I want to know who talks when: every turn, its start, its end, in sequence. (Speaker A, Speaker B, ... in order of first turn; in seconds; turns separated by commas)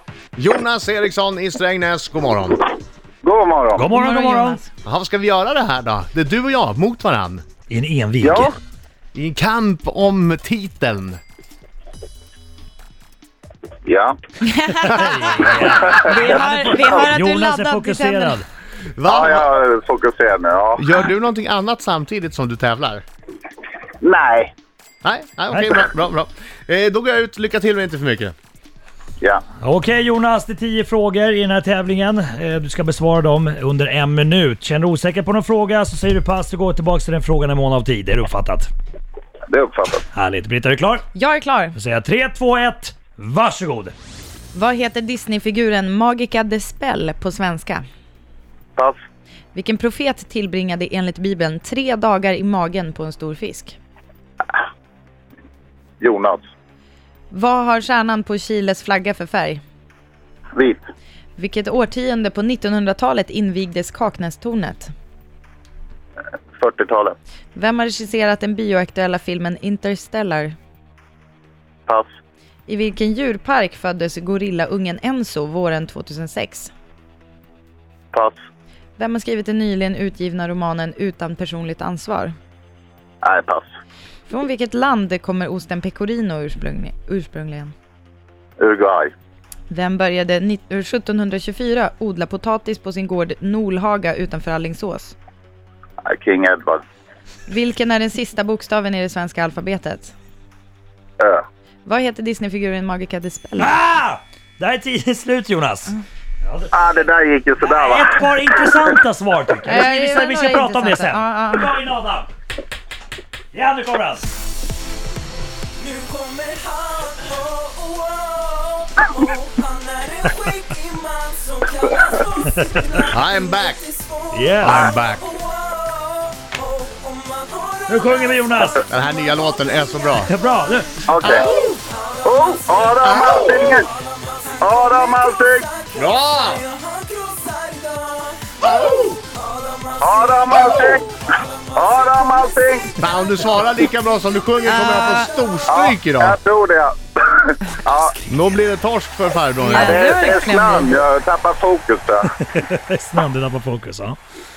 Speaker A: 0.4-2.6, Speaker B: 3.2-3.9, Speaker C: 3.7-4.6, Speaker D: 3.9-4.7, Speaker A: 4.8-7.4, Speaker C: 7.7-8.6, Speaker B: 8.2-8.5, Speaker A: 9.1-11.2, Speaker B: 13.8-14.2, Speaker D: 14.4-18.4, Speaker C: 14.8-18.4, Speaker B: 15.8-17.0, Speaker A: 18.9-19.5, Speaker B: 19.1-20.8, Speaker A: 20.8-23.0, Speaker B: 24.0-24.5, Speaker A: 25.0-28.3, Speaker C: 25.5-25.8, Speaker C: 29.6-38.7, Speaker B: 39.5-40.0, Speaker C: 40.1-41.0, Speaker D: 41.1-41.7, Speaker C: 41.7-43.9, Speaker D: 44.5-47.8, Speaker D: 49.5-53.8, Speaker B: 56.0-56.4, Speaker D: 57.3-59.6, Speaker B: 60.5-60.8, Speaker D: 61.4-64.9, Speaker B: 66.6-67.2, Speaker D: 67.5-70.5, Speaker D: 72.7-76.7, Speaker D: 79.0-82.3, Speaker B: 83.2-83.7, Speaker D: 84.3-87.7, Speaker B: 88.6-89.1, Speaker D: 89.7-95.2, Speaker B: 96.0-96.8, Speaker D: 97.5-100.1, Speaker B: 101.2-101.4, Speaker D: 101.8-103.7, Speaker C: 103.6-106.7, Speaker B: 106.7-108.2, Speaker C: 107.6-112.3, Speaker D: 109.7-111.7, Speaker C: 113.5-114.3, Speaker E: 115.9-122.3, Speaker C: 122.4-123.0, Speaker A: 123.1-123.9, Speaker C: 124.3-124.9, Speaker A: 124.6-125.3, Speaker B: 124.6-124.9, Speaker E: 127.0-127.8, Speaker C: 127.9-128.8, Speaker A: 128.9-130.3, Speaker C: 130.2-131.0, Speaker B: 131.1-131.5, Speaker A: 131.1-131.8, Speaker B: 132.2-133.9, Speaker A: 133.0-133.6, Speaker B: 134.6-135.6, Speaker A: 135.9-136.6, Speaker E: 136.7-138.8, Speaker A: 138.6-139.1, Speaker E: 139.3-140.5, Speaker B: 140.0-141.1, Speaker B: 141.7-143.0, Speaker A: 143.0-146.4, Speaker D: 144.7-145.3, Speaker B: 145.7-148.2, Speaker A: 148.2-150.1, Speaker D: 149.6-151.0, Speaker B: 149.8-152.3, Speaker C: 152.3-154.2